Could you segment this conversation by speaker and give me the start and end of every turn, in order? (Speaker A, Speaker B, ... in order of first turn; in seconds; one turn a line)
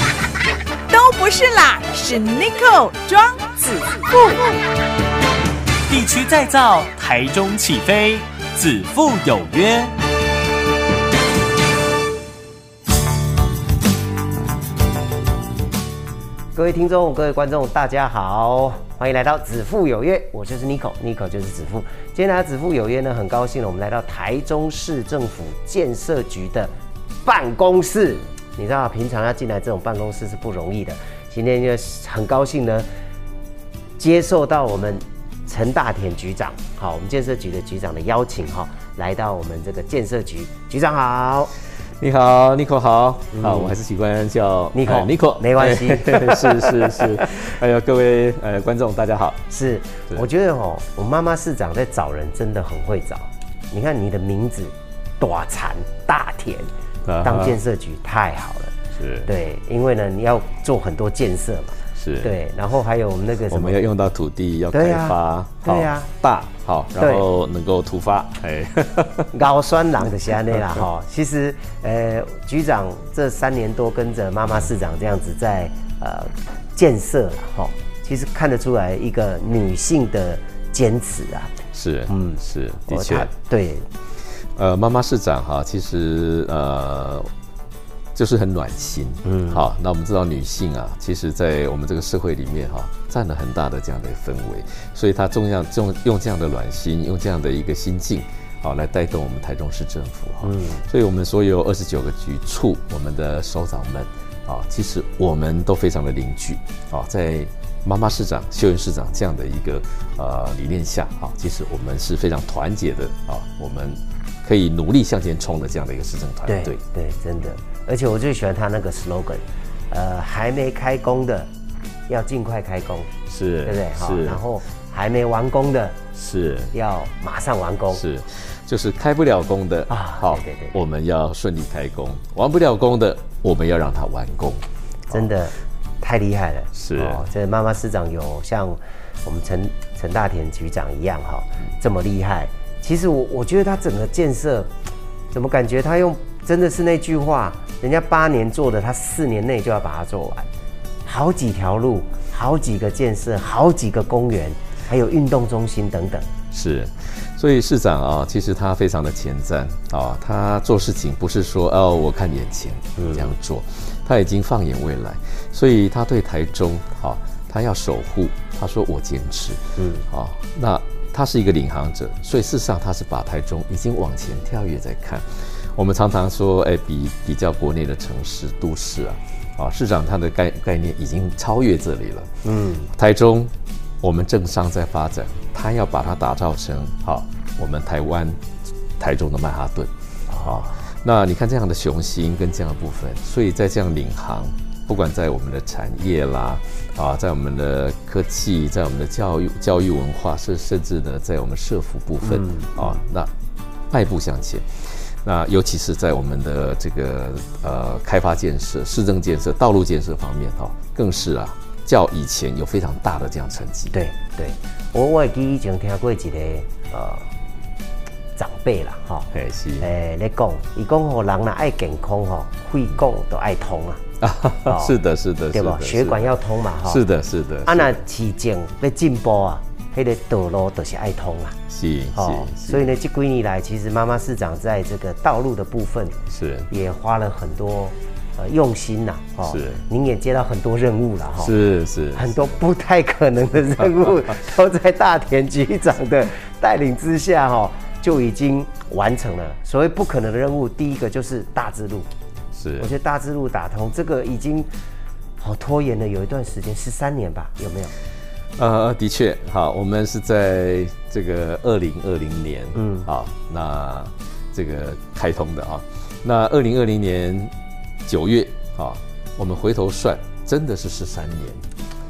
Speaker A: 0.9-3.6
Speaker B: 3.5-4.0
Speaker B: 5.9-9.9
Speaker A: 8.0-8.2
Speaker C: 16.6-26.7
Speaker C: 27.2-32.9
Speaker C: 34.0-41.5
Speaker D: 42.0-49.4
Speaker C: 43.3-43.7
Speaker C: 44.7-47.2
Speaker C: 49.5-56.7
Speaker D: 57.0-57.6
Speaker C: 57.2-58.7
Speaker D: 59.0-59.3
Speaker C: 59.3-63.8
Speaker D: 62.0-62.3
Speaker D: 63.5-69.3
Speaker C: 64.7-66.1
Speaker C: 66.9-67.2
Speaker C: 69.3-81.5
Speaker D: 70.5-70.8
Speaker D: 81.7-83.3
Speaker C: 82.1-83.9
Speaker D: 84.5-87.3
Speaker D: 88.1-116.8
Speaker C: 89.2-89.6
Speaker C: 100.4-100.8
Speaker C: 116.5-121.5
Speaker C: 122.1-123.1
Speaker D: 123.3-124.4
Speaker C: 123.6-126.0
Speaker D: 126.1-126.7
Speaker C: 126.7-128.0
Speaker D: 127.9-135.3
Speaker C: 129.9-130.8
Speaker C: 135.1-144.7
Speaker D: 136.7-137.2
Speaker C: 145.3-150.5
Speaker C: 151.0-156.3
Speaker D: 156.5-182.3
Speaker C: 163.0-163.3
Speaker C: 169.8-170.0
Speaker C: 182.4-182.9
Speaker D: 182.9-188.4
Speaker D: 189.0-189.9
Speaker C: 190.3-190.8
Speaker D: 190.4-203.3
Speaker C: 202.2-203.0
Speaker D: 203.9-204.6
Speaker D: 205.2-213.9
Speaker C: 213.9-217.3
Speaker C: 218.3-219.3
Speaker D: 219.3-219.9
Speaker C: 219.8-224.0
Speaker D: 224.2-228.0
Speaker C: 224.7-224.9
Speaker C: 225.5-227.0
Speaker C: 227.7-231.6
Speaker D: 231.7-232.9
Speaker C: 232.1-236.1
Speaker D: 236.3-236.7
Speaker C: 236.7-241.5
Speaker D: 239.4-239.8
Speaker D: 241.4-242.4
Speaker C: 242.1-252.1
Speaker D: 252.5-252.9
Speaker C: 252.8-254.7
Speaker C: 255.4-257.9
Speaker D: 258.6-267.5
Speaker C: 262.8-263.1
Speaker D: 268.1-271.6